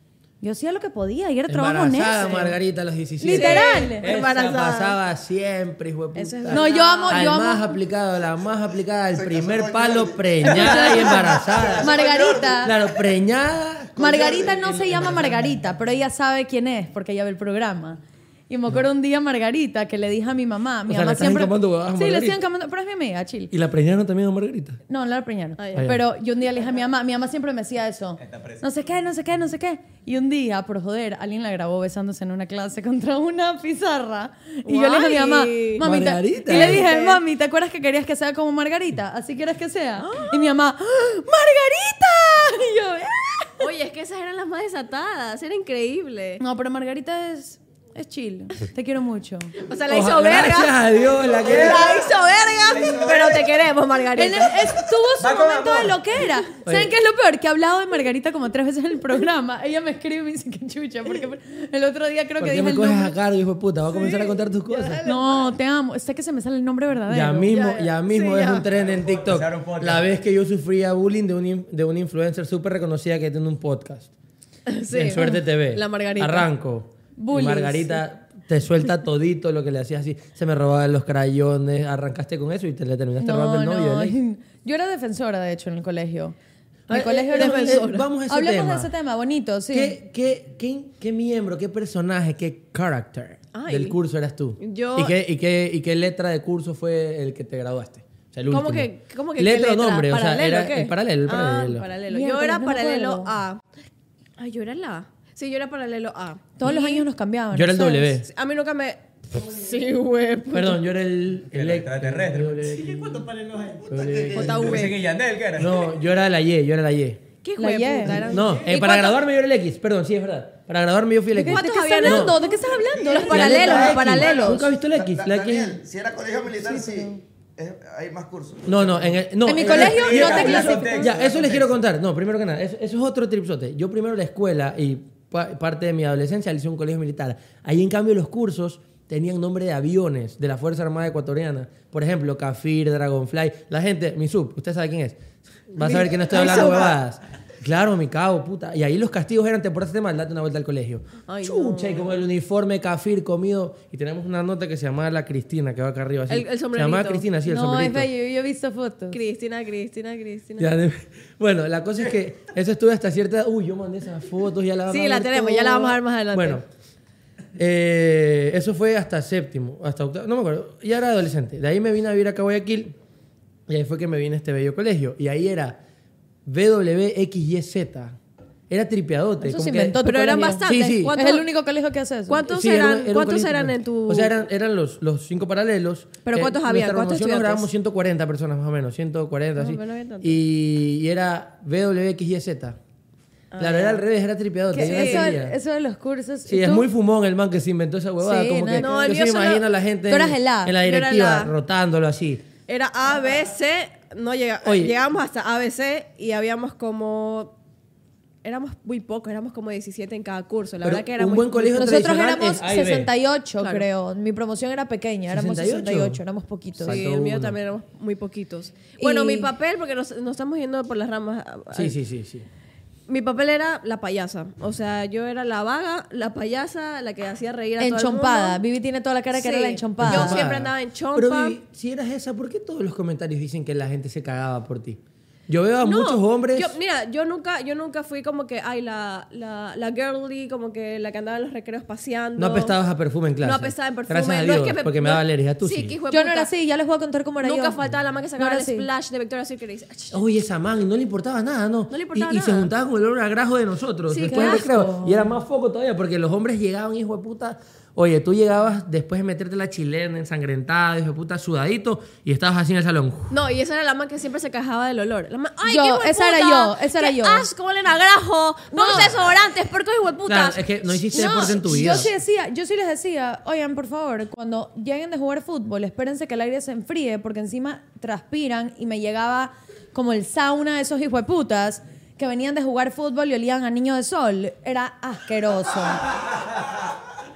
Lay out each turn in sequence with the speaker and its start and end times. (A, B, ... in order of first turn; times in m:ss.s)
0:00.4-0:02.6 A
0:01.5-0:12.0 B
0:03.2-0:04.1 A
0:03.3-0:05.0 C
0:06.1-0:07.2 C
0:06.5-0:07.7 A
0:09.1-0:12.6 D
0:11.5-0:12.5 E
0:11.8-0:12.8 A
0:12.6-0:14.0 B
0:14.0-0:15.2 D
0:14.0-0:23.5 A
0:20.9-0:22.4 B
0:23.5-0:24.8 B
0:24.9-0:43.6 A
0:25.6-0:25.9 C
0:25.8-0:26.0 B
0:28.2-0:28.6 E
0:34.6-0:35.8 C
0:35.8-0:36.8 B
0:36.4-0:37.2 C
0:40.0-0:40.4 C
0:43.6-0:46.4 C
0:46.4-0:49.6 A
0:49.6-0:50.8 C
0:49.9-0:52.0 B
0:51.3-0:54.6 C
0:51.4-0:51.9 E
0:52.6-0:53.5 E
0:54.1-1:03.1 A
0:55.2-0:56.0 E
0:56.6-0:56.9 B
1:02.4-1:05.0 B
1:03.9-1:05.5 C
1:05.0-1:07.5 A
1:07.1-1:14.1 B
1:07.5-1:08.7 C
1:08.7-1:10.1 E
1:14.7-1:16.5 C
1:14.9-1:24.2 B
1:17.2-1:18.0 A
1:23.2-1:26.4 A
1:26.9-1:28.9 B
1:26.9-1:30.0 A
1:26.9-1:28.1 C
1:29.7-1:41.9 B
1:33.5-1:34.0 C
1:34.6-1:35.1 C
1:38.5-1:43.6 C
1:42.1-1:43.3 A
1:44.4-1:47.0 C
1:46.6-1:48.2 A
1:47.5-1:48.3 B
1:48.3-1:50.8 C
1:50.5-1:53.3 B
1:51.5-1:53.0 E
1:53.8-1:54.9 B
1:54.2-1:55.8 E
1:54.3-1:55.0 C
1:55.5-1:57.2 B
1:57.4-1:58.7 C
1:57.6-1:59.1 A
1:58.0-2:02.4 B
2:01.3-2:04.2 A
2:01.4-2:04.6 C
2:03.2-2:05.8 B
2:03.5-2:09.0 D
2:06.6-2:07.2 A
2:08.6-2:38.1 B
2:09.4-2:11.1 A
2:09.6-2:11.8 E
2:25.8-2:27.0 C
2:31.3-2:32.1 C
2:36.3-2:37.2 C
2:37.4-2:39.2 A
2:39.1-2:40.7 C
2:40.6-2:46.6 B
2:44.9-2:46.6 C
2:47.6-2:53.0 B
2:53.7-2:55.8 B
2:56.4-2:58.2 B
2:58.7-3:00.0 B
2:59.4-3:02.4 A
3:00.0-3:01.4 C
3:00.6-3:01.1 B
3:02.3-3:04.3 C
3:02.5-3:12.8 B
3:06.2-3:07.7 C
3:09.6-3:10.4 C
3:13.5-3:14.0 C
3:13.6-3:15.6 B
3:14.7-3:16.9 A
3:14.8-3:15.3 C
3:16.5-3:22.4 B
3:18.2-3:19.1 A
3:18.8-3:19.6 C
3:20.1-3:20.8 A
3:20.8-3:21.5 C
3:22.7-3:27.5 C
3:24.6-3:25.0 B
3:28.4-3:32.0 C
3:30.8-3:33.1 B
3:31.7-3:37.0 A
3:33.6-3:33.9 C
3:35.3-3:36.2 B
3:36.8-3:37.6 B
3:36.8-3:41.9 C
3:39.0-3:39.5 A
3:41.7-3:42.5 B
3:43.1-3:48.6 C
3:47.8-3:50.4 A
3:49.3-3:51.6 C
3:50.0-3:56.7 B
3:55.8-4:02.8 C
4:02.4-4:05.9 B
4:03.4-4:06.5 C
4:06.1-4:07.8 A
4:07.4-4:10.2 C
4:08.4-4:08.9 A
4:10.1-4:23.3 B
4:11.9-4:12.7 C
4:14.1-4:14.6 C
4:14.2-4:15.3 A
4:23.3-4:31.9 C
4:25.6-4:27.4 A
4:28.7-4:29.1 A
4:30.2-4:32.1 B
4:31.1-4:46.1 A